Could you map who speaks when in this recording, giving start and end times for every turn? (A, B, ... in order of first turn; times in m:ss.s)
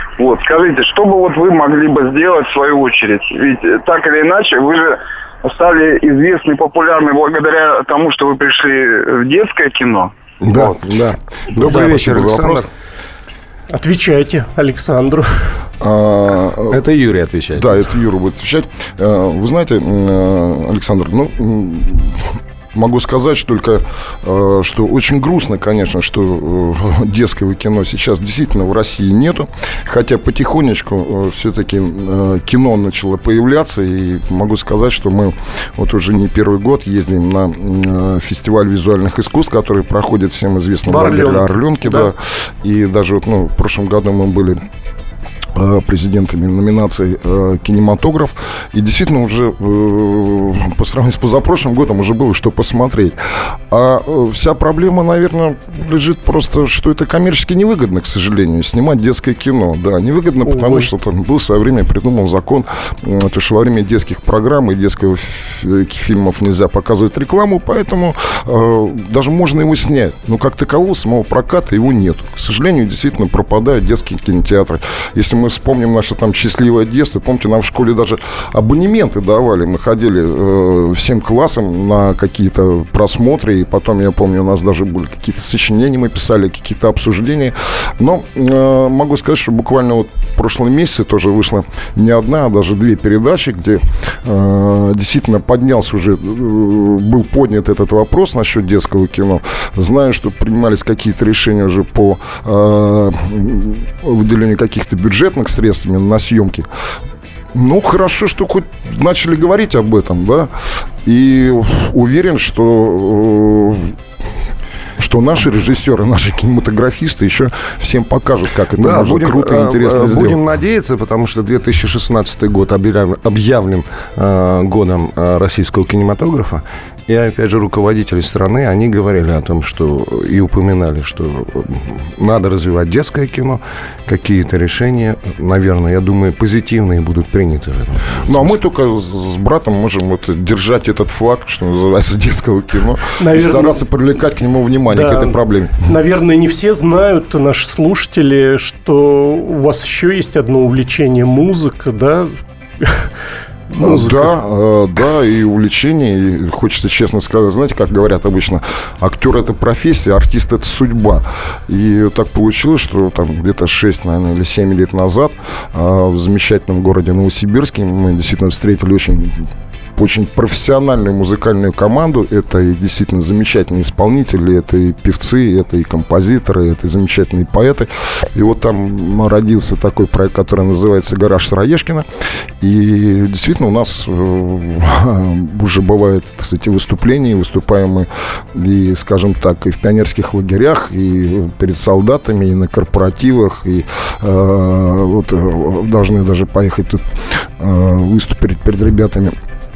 0:00.2-0:10.1 A
0:10.4-0:12.7 B
0:10.5-0:12.7 C
0:13.7-0:15.5 D
0:15.8-0:16.8 C
0:16.7-0:17.8 B
0:17.6-0:44.6 C
0:40.9-0:42.1 D
0:45.6-0:53.2 C
0:53.7-1:46.7 C
1:00.5-1:00.9 D
1:47.5-1:54.0 C
1:55.0-2:00.4 C
1:58.8-2:18.6 B
2:18.2-2:25.9 C
2:23.2-2:23.8 D
2:24.9-2:33.1 D
2:33.7-2:34.3 D
2:33.8-3:02.1 C
3:02.6-3:19.4 C